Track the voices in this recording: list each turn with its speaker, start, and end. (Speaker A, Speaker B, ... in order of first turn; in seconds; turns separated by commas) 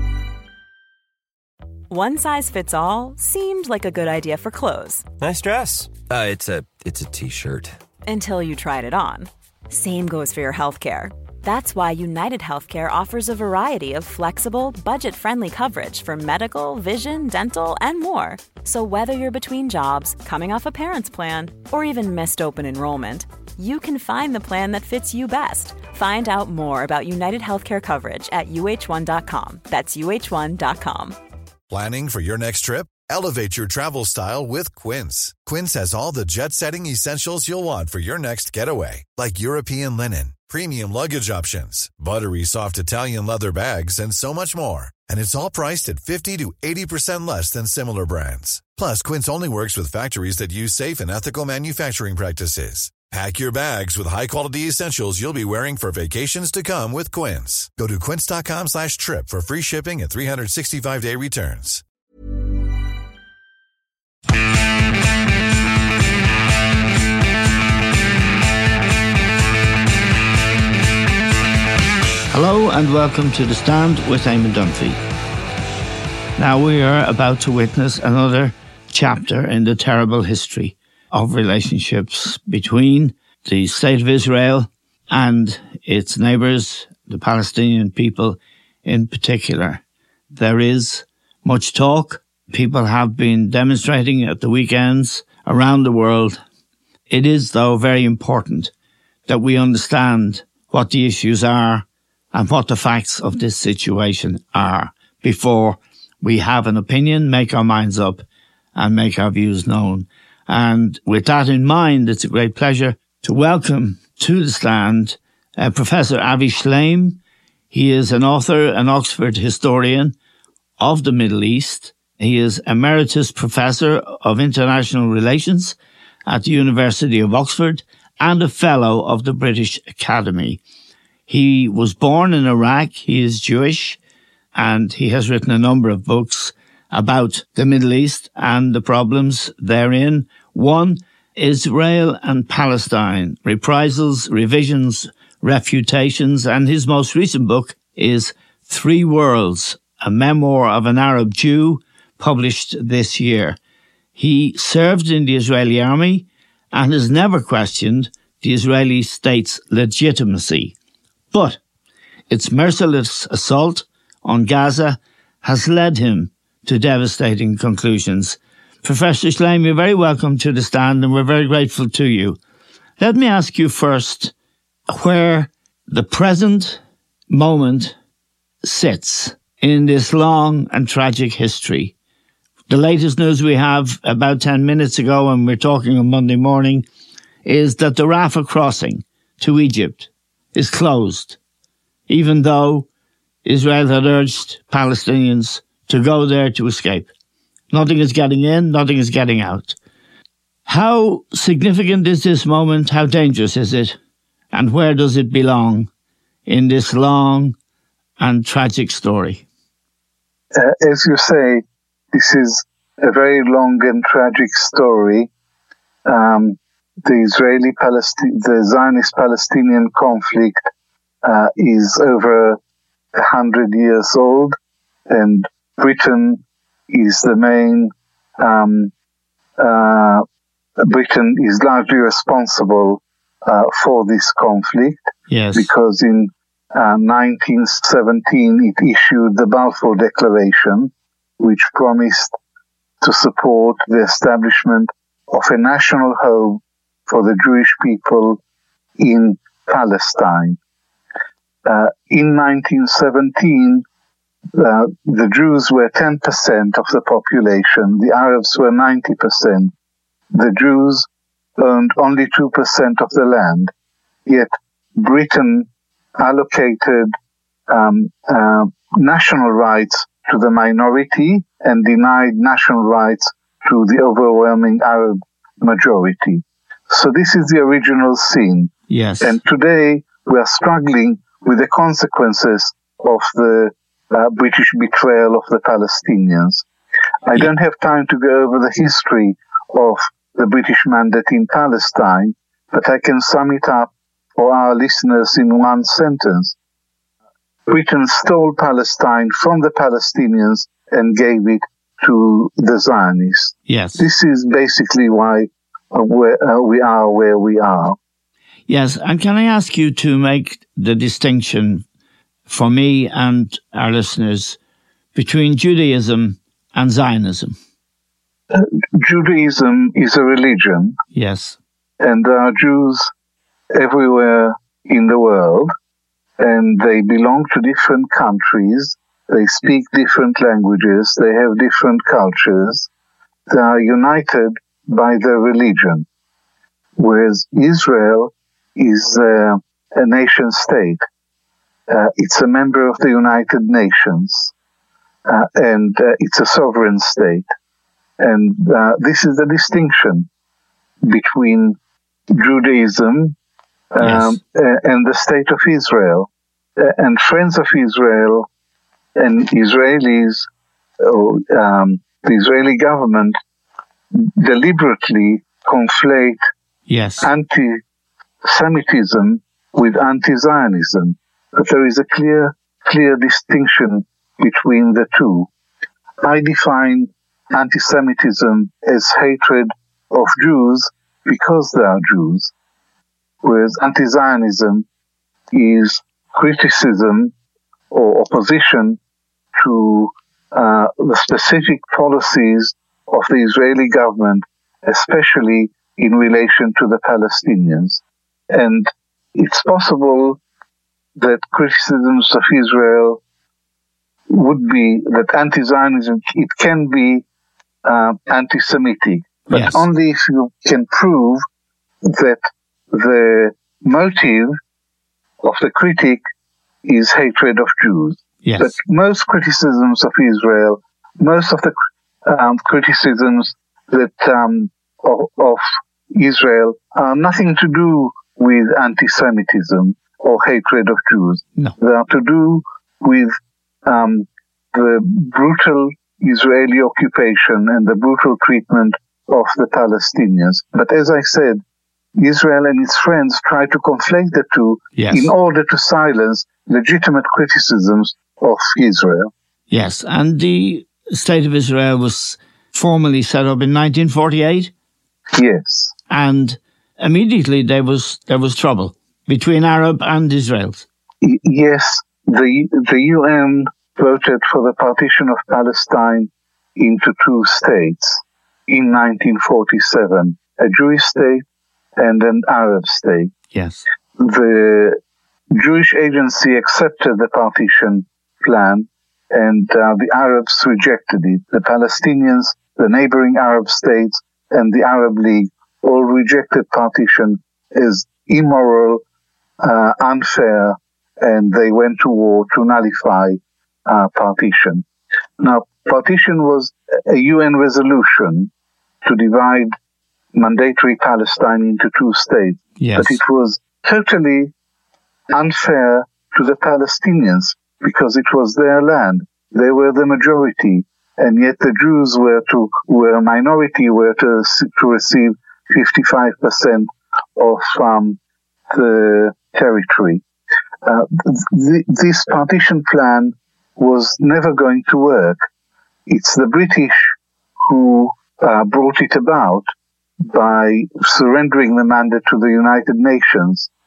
Speaker A: 1.9-5.0, Speaker B: 5.2-7.8, Speaker A: 8.1-31.2, Speaker C: 31.7-61.8, Speaker D: 72.3-75.0, Speaker D: 76.4-89.8, Speaker D: 90.3-96.4, Speaker D: 97.1-98.7, Speaker D: 99.3-108.2, Speaker D: 108.8-117.2, Speaker D: 117.7-120.2, Speaker D: 120.8-130.6, Speaker D: 131.3-134.0, Speaker D: 134.6-153.6, Speaker D: 154.2-160.8, Speaker D: 161.3-161.6, Speaker D: 162.3-172.4, Speaker D: 173.0-174.3, Speaker D: 174.9-177.9, Speaker D: 178.6-181.9, Speaker D: 182.7-186.8, Speaker D: 187.4-191.4, Speaker D: 192.1-192.9, Speaker D: 193.4-197.1, Speaker D: 197.7-199.8, Speaker D: 200.7-204.0, Speaker D: 204.5-205.9, Speaker D: 206.5-207.6, Speaker D: 208.2-209.4, Speaker E: 210.5-215.3, Speaker E: 216.1-220.6, Speaker E: 221.2-222.6, Speaker E: 223.1-224.6, Speaker E: 225.1-228.9, Speaker E: 229.6-230.2, Speaker E: 230.8-235.0, Speaker D: 235.3-235.7, Speaker E: 235.5-242.3, Speaker E: 243.0-248.4, Speaker E: 249.0-250.6, Speaker E: 251.6-253.8, Speaker E: 254.5-259.7, Speaker E: 260.3-261.1, Speaker E: 261.6-263.7, Speaker E: 264.2-267.1, Speaker E: 267.7-286.6, Speaker D: 278.9-279.4, Speaker E: 287.2-296.6, Speaker E: 297.7-308.0, Speaker D: 303.7-304.1, Speaker D: 308.7-311.9, Speaker D: 312.5-314.6, Speaker D: 315.1-317.6, Speaker E: 318.5-321.0, Speaker D: 321.1-321.6, Speaker E: 322.0-323.1, Speaker E: 323.7-325.7, Speaker E: 326.4-332.9, Speaker E: 333.5-336.1, Speaker E: 337.0-341.0, Speaker E: 341.9-344.5, Speaker E: 345.2-347.5, Speaker E: 348.2-350.3, Speaker E: 351.0-351.8, Speaker E: 352.3-353.4, Speaker E: 353.9-358.5, Speaker D: 354.0-354.4, Speaker E: 359.2-360.5, Speaker E: 361.0-363.4, Speaker E: 364.1-366.4, Speaker D: 366.9-367.3, Speaker E: 367.2-367.8, Speaker E: 368.4-375.5, Speaker E: 376.2-382.5, Speaker E: 383.4-384.9, Speaker E: 385.5-387.3, Speaker E: 387.9-389.0, Speaker E: 389.6-398.0, Speaker E: 398.5-400.4, Speaker E: 401.2-403.2, Speaker E: 404.3-407.2, Speaker E: 407.8-411.4, Speaker D: 409.5-409.9, Speaker E: 412.0-414.6, Speaker E: 415.4-416.2, Speaker E: 416.8-421.7, Speaker D: 418.4-418.8, Speaker E: 422.2-441.6, Speaker E: 442.2-449.3, Speaker D: 444.9-445.3, Speaker D: 449.7-454.7, Speaker E: 455.3-455.9, Speaker D: 456.1-460.9, Speaker E: 461.2-471.4, Speaker E: 472.0-473.3, Speaker D: 473.5-473.9, Speaker E: 474.2-475.0, Speaker E: 475.5-489.0, Speaker E: 489.6-494.9, Speaker E: 495.4-498.5, Speaker E: 499.0-499.7, Speaker E: 500.3-504.5, Speaker D: 502.8-503.2, Speaker E: 505.3-518.2, Speaker E: 518.7-520.2, Speaker E: 520.8-525.4, Speaker E: 526.1-529.6, Speaker E: 530.2-533.7